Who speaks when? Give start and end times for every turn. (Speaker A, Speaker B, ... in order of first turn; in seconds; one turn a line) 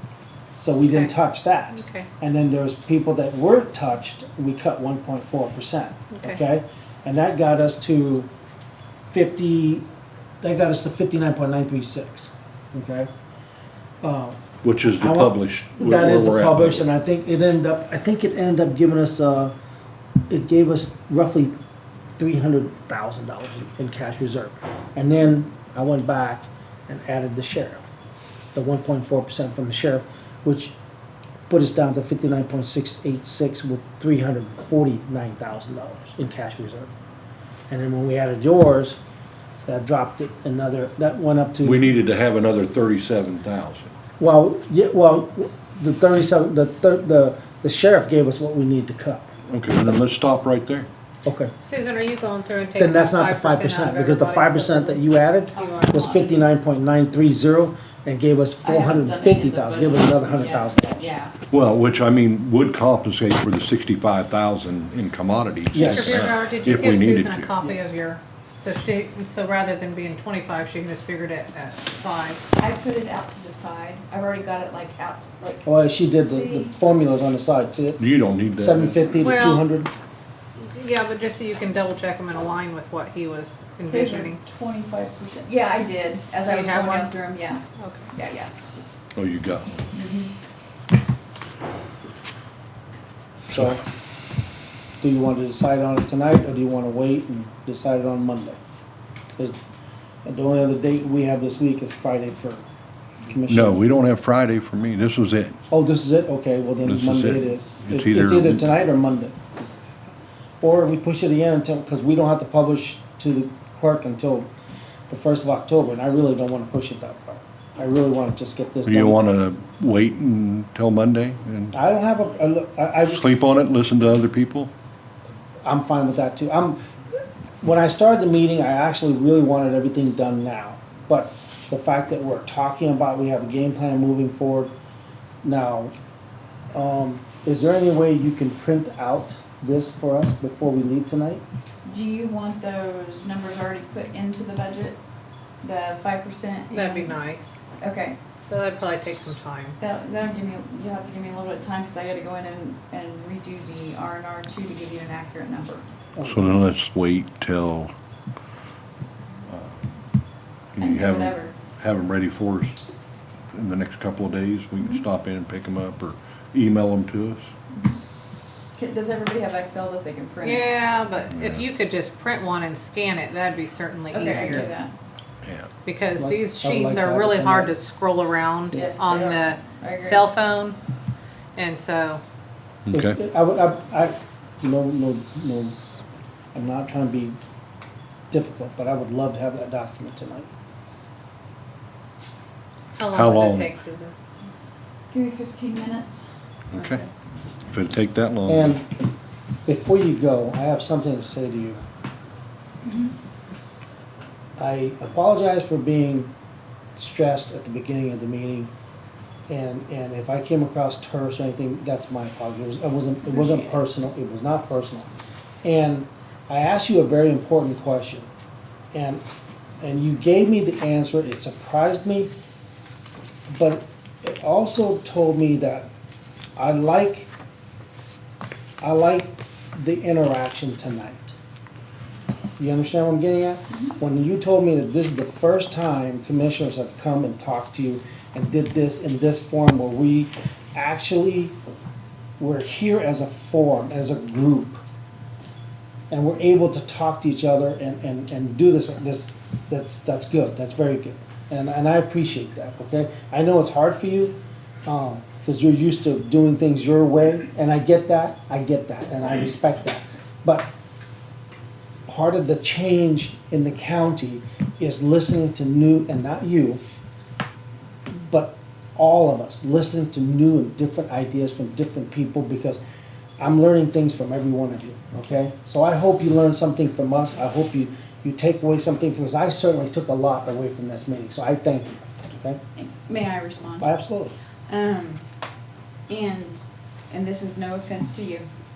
Speaker A: 0.6-8.3
Speaker B: 1.7-2.1
Speaker B: 6.1-6.4
Speaker A: 9.1-9.8
Speaker A: 10.4-13.1
Speaker A: 14.0-14.4
Speaker C: 14.6-16.8
Speaker A: 15.0-19.5
Speaker A: 20.3-21.5
Speaker A: 22.1-27.8
Speaker A: 28.5-30.7
Speaker A: 31.5-36.9
Speaker A: 37.7-39.0
Speaker A: 39.6-41.9
Speaker C: 41.6-43.9
Speaker A: 44.2-49.3
Speaker C: 49.5-50.9
Speaker A: 51.2-51.5
Speaker B: 51.6-56.4
Speaker A: 52.8-61.1
Speaker D: 55.5-56.6
Speaker D: 58.6-61.3
Speaker C: 61.5-67.5
Speaker A: 65.7-66.3
Speaker B: 65.7-72.4
Speaker A: 67.6-67.9
Speaker D: 72.6-76.7
Speaker A: 75.6-78.0
Speaker C: 78.0-79.0
Speaker A: 78.5-79.9
Speaker B: 79.2-79.7
Speaker B: 80.6-84.4
Speaker D: 83.9-88.5
Speaker B: 86.5-87.1
Speaker B: 87.8-88.1
Speaker C: 89.1-89.9
Speaker D: 89.9-90.3
Speaker C: 93.5-93.8
Speaker A: 93.5-93.8
Speaker A: 95.0-98.6
Speaker A: 100.2-102.6
Speaker A: 103.3-103.8
Speaker C: 103.5-105.6
Speaker A: 105.7-109.8
Speaker C: 106.8-108.6
Speaker A: 110.6-114.5
Speaker A: 115.1-119.2
Speaker C: 118.8-121.8
Speaker A: 121.7-123.2
Speaker C: 123.1-124.7
Speaker A: 125.6-126.8
Speaker A: 127.6-134.7
Speaker A: 135.4-135.9
Speaker A: 136.7-141.4
Speaker D: 141.8-145.0
Speaker D: 145.6-147.2
Speaker B: 146.7-147.6
Speaker D: 147.8-148.2
Speaker B: 148.4-149.8
Speaker D: 149.8-155.8
Speaker A: 156.2-156.6
Speaker C: 156.2-157.9
Speaker C: 159.5-159.9
Speaker C: 160.7-162.8
Speaker D: 160.8-161.5
Speaker C: 163.5-167.5
Speaker D: 167.7-168.0
Speaker D: 168.8-170.8
Speaker B: 170.4-174.7
Speaker C: 171.3-171.7
Speaker D: 174.1-174.9
Speaker A: 174.4-174.7
Speaker C: 175.4-175.7
Speaker B: 175.8-180.8
Speaker A: 176.2-177.7
Speaker D: 178.7-180.2
Speaker B: 181.6-182.2
Speaker C: 182.8-183.2
Speaker A: 182.9-185.8
Speaker A: 186.5-187.4
Speaker A: 188.3-190.5
Speaker B: 192.9-194.1
Speaker C: 193.1-193.7
Speaker D: 195.1-196.3
Speaker C: 196.7-197.0
Speaker B: 196.8-197.1
Speaker C: 197.7-198.7
Speaker A: 198.5-198.9
Speaker A: 199.7-201.8
Speaker D: 202.8-203.1
Speaker A: 204.6-206.3
Speaker A: 207.0-208.7
Speaker A: 209.5-215.1
Speaker D: 213.2-213.8
Speaker A: 215.6-218.3
Speaker A: 218.9-219.2
Speaker A: 219.8-222.3
Speaker A: 223.5-225.9
Speaker A: 226.6-227.3
Speaker A: 228.8-231.3
Speaker A: 232.6-241.5
Speaker A: 242.4-244.8
Speaker A: 246.1-260.7
Speaker A: 262.1-266.8
Speaker A: 268.1-272.8
Speaker A: 273.4-282.6
Speaker D: 282.7-283.9
Speaker A: 283.8-284.3
Speaker D: 284.7-285.2
Speaker D: 286.1-288.5